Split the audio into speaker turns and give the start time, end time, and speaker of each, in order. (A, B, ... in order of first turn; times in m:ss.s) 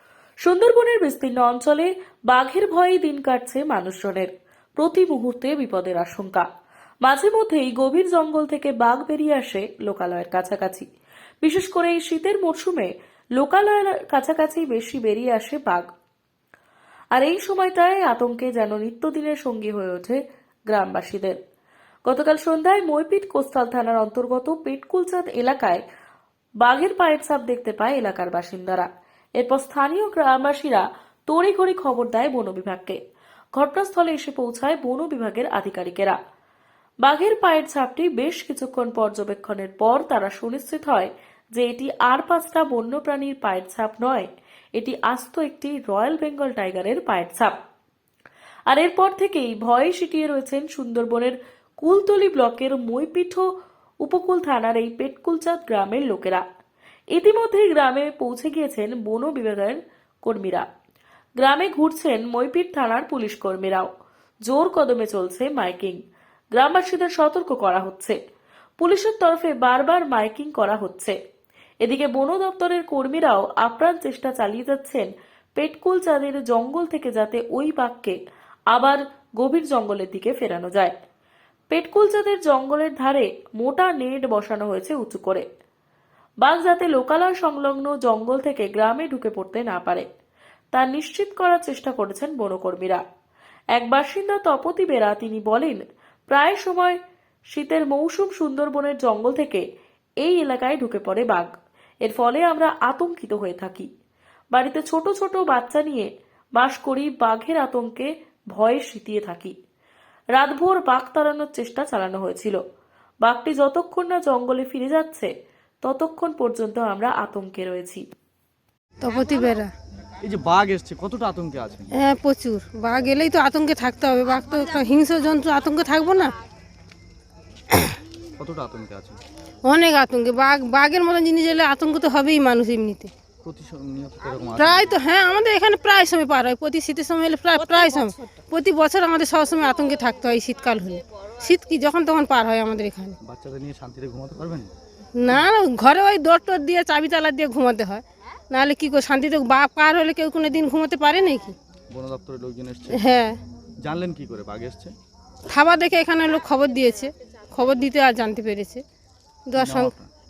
0:00.4-0:06.4 A
0:07.0-0:10.9 A
0:11.4-0:15.9 A
0:17.1-0:21.4 A
0:22.0-0:25.8 A
0:26.6-0:33.0 A
0:33.5-0:36.2 A
0:37.0-0:47.6 A
0:48.7-0:56.4 A
0:57.1-1:00.6 A
1:01.4-1:03.9 A
1:04.5-1:06.0 A
1:06.5-1:08.2 A
1:08.8-1:11.2 A
1:11.8-1:18.2 A
1:18.7-1:20.9 A
1:21.7-1:25.4 A
1:26.4-1:30.0 A
1:30.7-1:33.0 A
1:33.7-1:37.0 A
1:37.5-1:39.6 A
1:40.2-1:41.5 A
1:42.0-1:43.9 A
1:44.5-1:49.5 A
1:50.3-1:52.6 A
1:53.2-1:55.3 A
1:55.8-1:58.0 A
1:59.0-1:59.7 B
2:00.2-2:01.9 C
2:02.0-2:06.3 B
2:08.4-2:09.2 C
2:09.6-2:13.1 B
2:13.4-2:14.9 C
2:14.5-2:23.2 B
2:23.2-2:24.7 C
2:25.1-2:31.6 B
2:31.9-2:33.0 C
2:32.9-2:33.4 B
2:33.8-2:34.9 C
2:35.5-2:38.8 B
2:39.5-2:39.9 B
2:39.6-2:40.1 C